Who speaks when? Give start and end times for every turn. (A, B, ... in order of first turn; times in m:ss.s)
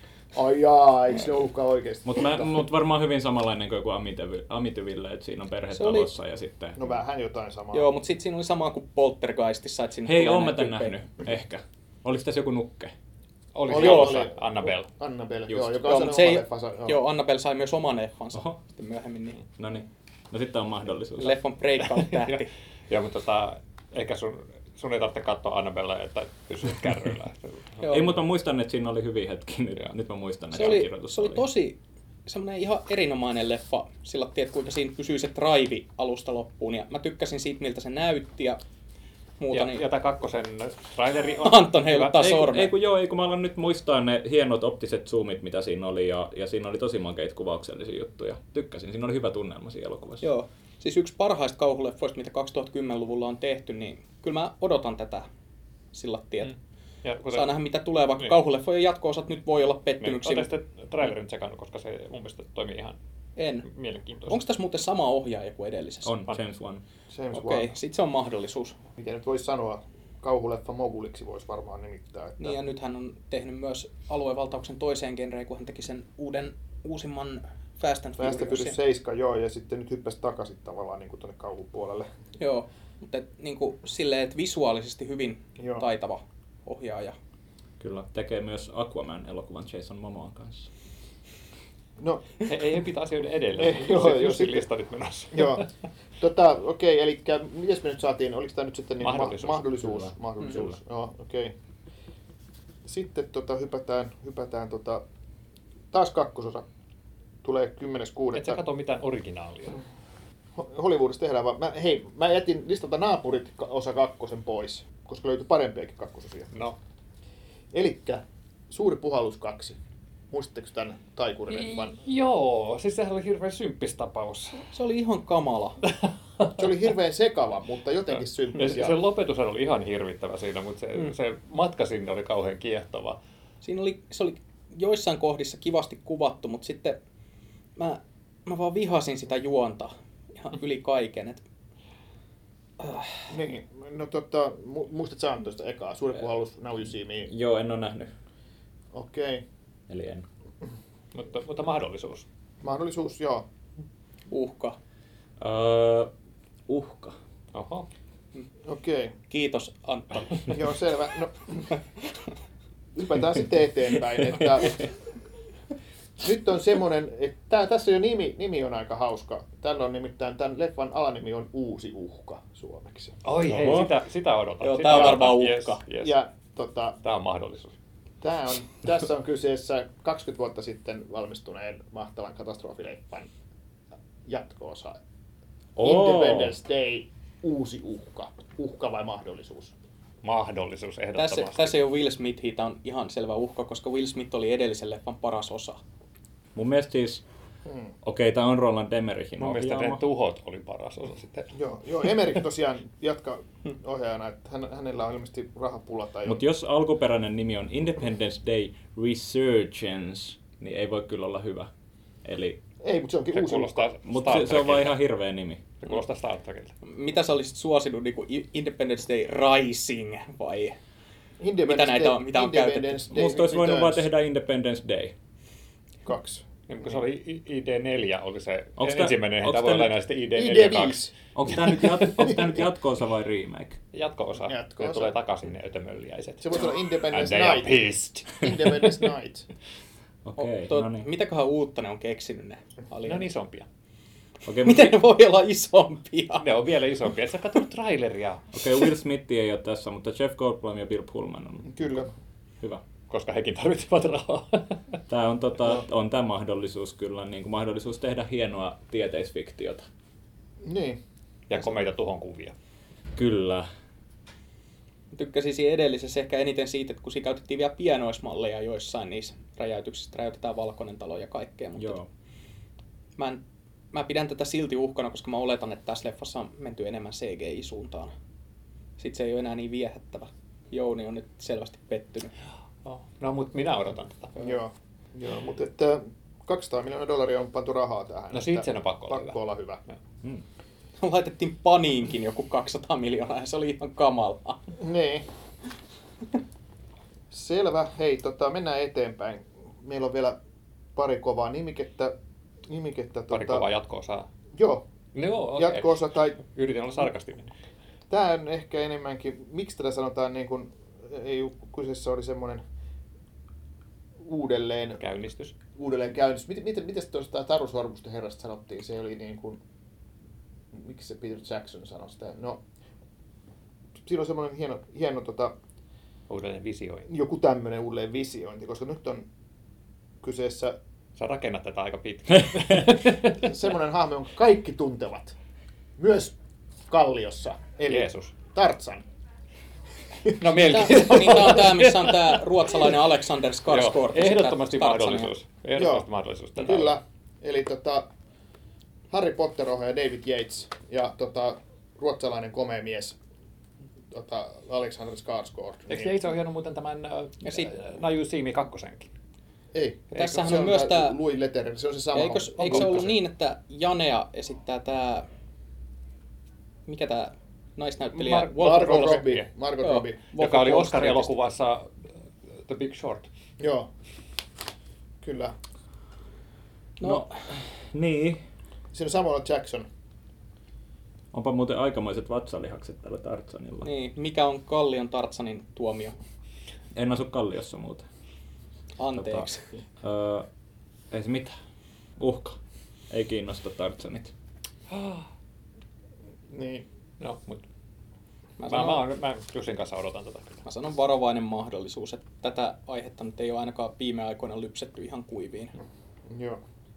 0:00.3-0:02.5 A
0:02.0-0:06.8 B
0:05.7-0:06.1 C
0:06.8-0:07.9 A
0:07.7-0:11.0 C
0:10.1-0:12.9 B
0:13.5-0:14.9 D
0:13.7-0:17.0 A
0:13.7-0:14.2 C
0:15.8-0:19.4 C
0:19.6-0:21.4 B
0:21.2-0:22.5 C
0:22.1-0:27.8 D
0:27.8-0:28.2 C
0:27.9-0:31.5 B
0:30.5-0:38.6 C
0:39.4-0:39.8 C
0:39.5-0:42.3 D
0:41.4-0:42.7 C
0:42.1-0:50.2 B
0:50.2-0:55.3 C
0:55.9-0:56.5 C
0:56.4-0:57.6 D
0:57.3-1:00.5 C
1:00.0-1:03.0 D
1:03.4-1:03.7 C
1:03.6-1:04.4 D
1:04.3-1:06.2 C
1:06.0-1:06.8 B
1:07.1-1:07.7 A
1:07.3-1:08.8 C
1:09.0-1:12.6 A
1:12.4-1:18.8 C
1:18.2-1:22.1 A
1:22.4-1:27.2 C
1:25.6-1:25.8 A
1:27.8-1:30.7 B
1:32.0-1:32.4 A
1:32.4-1:35.7 D
1:33.6-1:34.7 A
1:35.3-1:35.7 A
1:36.2-1:41.5 A
1:39.0-1:40.1 D
1:42.8-1:45.0 A
1:45.9-1:46.7 A
1:47.4-1:48.6 A
1:48.3-1:49.8 D
1:50.6-1:56.5 A
1:56.5-1:56.8 D
1:57.7-1:59.8 A
2:00.3-2:02.0 A
2:01.5-2:04.7 D
2:04.7-2:05.8 C
2:06.5-2:09.0 A
2:08.6-2:13.2 D
2:13.6-2:17.0 C
2:17.8-2:21.4 C
2:22.8-2:23.1 C
2:23.3-2:27.3 A
2:27.3-2:28.1 B
2:28.9-2:29.4 A
2:29.9-2:30.3 B
2:31.1-2:32.3 D
2:32.6-2:33.5 A
2:34.3-2:34.8 C
2:35.4-2:36.1 B
2:36.7-2:37.2 B
2:37.5-2:37.9 D
2:38.6-2:39.2 A
2:39.3-2:40.6 C
2:40.5-2:41.7 A
2:43.0-2:44.8 A
2:46.2-2:53.2 A
2:53.2-2:56.2 D
2:53.4-2:53.9 B
2:54.6-2:55.8 C
2:56.0-2:57.0 A
2:57.0-2:57.8 D
2:58.2-3:03.3 A
3:04.3-3:05.0 A
3:05.8-3:06.6 B
3:05.8-3:09.7 A
3:10.2-3:11.8 D
3:11.2-3:15.8 C
3:16.6-3:17.2 B
3:17.6-3:17.9 A
3:18.0-3:20.0 B
3:19.4-3:21.6 D
3:21.6-3:26.4 A
3:26.2-3:31.7 B
3:32.2-3:32.6 B
3:32.8-3:33.9 A
3:33.3-3:35.0 D
3:34.0-3:35.6 B
3:35.8-3:36.8 D
3:36.8-3:40.8 C
3:41.4-3:44.1 A
3:41.6-3:43.0 C
3:43.1-3:45.1 B
3:46.0-3:46.4 A
3:46.7-3:51.1 D
3:48.8-3:50.0 B
3:50.4-3:52.4 A
3:51.3-3:53.8 B
3:53.9-3:59.0 D
3:54.5-3:55.2 A
3:56.4-3:59.5 A
4:00.2-4:01.1 B
4:00.4-4:03.3 C
4:03.0-4:03.7 D
4:04.5-4:05.0 B
4:04.6-4:06.5 C
4:06.4-4:08.5 D
4:08.5-4:12.0 B
4:11.7-4:12.1 A
4:13.1-4:15.0 D
4:15.1-4:19.9 B
4:20.6-4:21.0 A
4:21.5-4:22.5 D
4:23.2-4:23.7 B
4:25.1-4:32.0 C
4:31.8-4:32.1 B
4:33.2-4:38.1 C
4:39.0-4:42.3 C
4:42.8-4:44.5 D
4:44.4-4:49.8 A
4:48.3-4:49.4 D
4:51.0-4:54.6 C
4:54.8-4:55.2 A
4:57.3-5:00.4 A
5:01.0-5:02.1 A
5:02.7-5:03.7 A
5:03.3-5:04.3 D
5:04.6-5:04.8 A
5:05.1-5:07.5 D
5:05.5-5:06.4 A
5:08.1-5:12.6 A
5:14.2-5:15.0 A
5:15.0-5:15.6 D
5:15.8-5:19.6 A
5:20.7-5:22.6 A
5:24.0-5:25.6 A
5:26.3-5:27.1 D
5:27.1-5:29.3 A
5:30.2-5:30.8 A
5:31.2-5:33.4 D
5:33.3-5:35.4 A
5:36.0-5:36.4 A
5:36.9-5:39.0 A
5:37.9-5:38.4 D
5:40.3-5:41.5 A
5:40.3-5:42.4 D
5:40.6-5:45.3 C
5:43.7-5:47.0 D
5:45.8-5:48.1 A
5:49.1-5:53.2 A
5:54.1-5:56.1 A
5:55.9-5:59.1 D
5:59.7-6:03.2 A
6:00.1-6:01.2 C
6:00.2-6:00.4 D
6:02.1-6:05.3 C
6:02.6-6:03.1 D
6:06.9-6:09.3 C
6:08.2-6:09.4 D
6:08.3-6:10.2 A
6:09.8-6:11.4 C
6:10.4-6:12.1 D
6:12.6-6:13.3 D
6:13.6-6:13.9 A
6:15.2-6:15.6 A
6:17.0-6:17.4 C
6:17.0-6:18.4 B
6:18.9-6:19.9 A
6:21.3-6:23.9 B
6:23.8-6:26.2 C
6:27.0-6:28.0 B
6:29.0-6:29.6 C
6:29.2-6:29.5 B
6:30.0-6:30.5 B
6:31.1-6:31.6 B
6:32.2-6:32.6 B
6:33.1-6:34.3 B
6:34.9-6:35.3 D
6:36.5-6:36.9 A
6:37.2-6:37.7 D
6:38.6-6:39.1 C
6:38.6-6:40.6 D
6:40.6-6:45.8 C
6:46.3-6:46.6 A